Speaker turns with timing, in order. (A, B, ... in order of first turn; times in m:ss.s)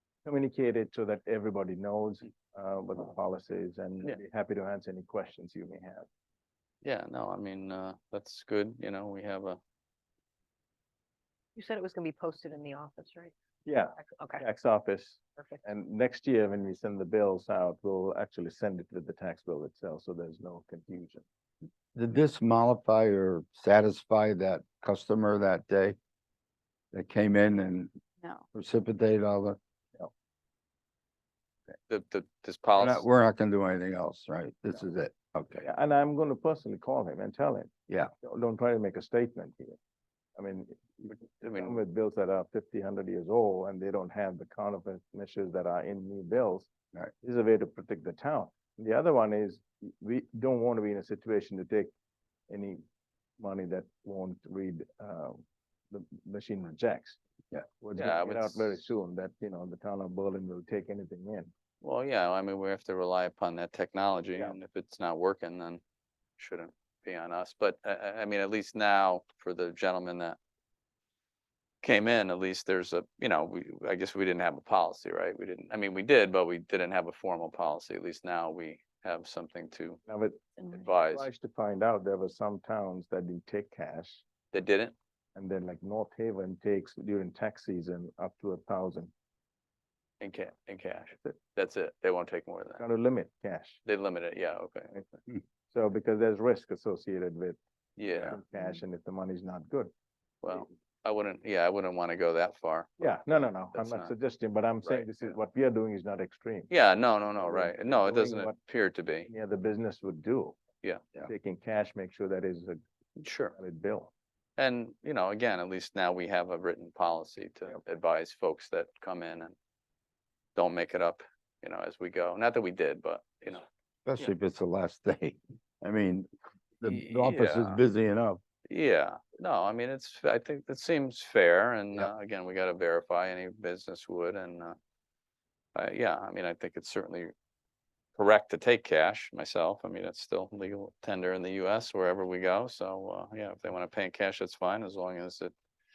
0:00.2-0:06.1 A
0:06.8-0:09.6 B
0:11.6-0:13.3 C
0:13.7-0:21.2 A
0:14.0-0:14.4 C
0:15.4-0:15.6 C
0:22.0-0:26.0 D
0:26.9-0:27.9 D
0:28.5-0:29.6 D
0:31.9-0:33.0 B
0:32.7-0:35.7 D
0:35.6-0:39.8 A
0:40.4-0:51.9 A
0:41.2-0:41.8 B
0:52.5-0:52.8 A
0:53.4-0:57.2 A
0:57.8-1:01.5 A
0:58.0-0:58.8 B
1:01.8-1:05.8 B
1:06.4-1:10.4 B
1:11.8-1:20.0 B
1:20.1-1:24.2 A
1:20.7-1:21.3 B
1:24.5-1:25.0 B
1:25.4-1:29.1 A
1:30.2-1:32.8 B
1:32.8-1:33.8 A
1:33.8-1:35.0 B
1:35.7-1:37.6 A
1:38.0-1:38.4 B
1:38.1-1:39.9 A
1:40.4-1:43.0 B
1:43.0-1:46.7 A
1:43.7-1:44.1 B
1:46.7-1:49.3 B
1:47.4-1:48.6 A
1:49.3-1:50.6 A
1:51.2-1:52.8 A
1:53.2-1:53.6 B
1:53.5-1:54.1 A
1:54.6-1:59.5 B
2:00.6-2:03.7 B
2:04.1-2:06.3 D
2:06.8-2:08.4 D
2:06.8-2:07.8 B
2:08.7-2:14.8 B
2:15.8-2:17.3 B
2:18.2-2:25.5 B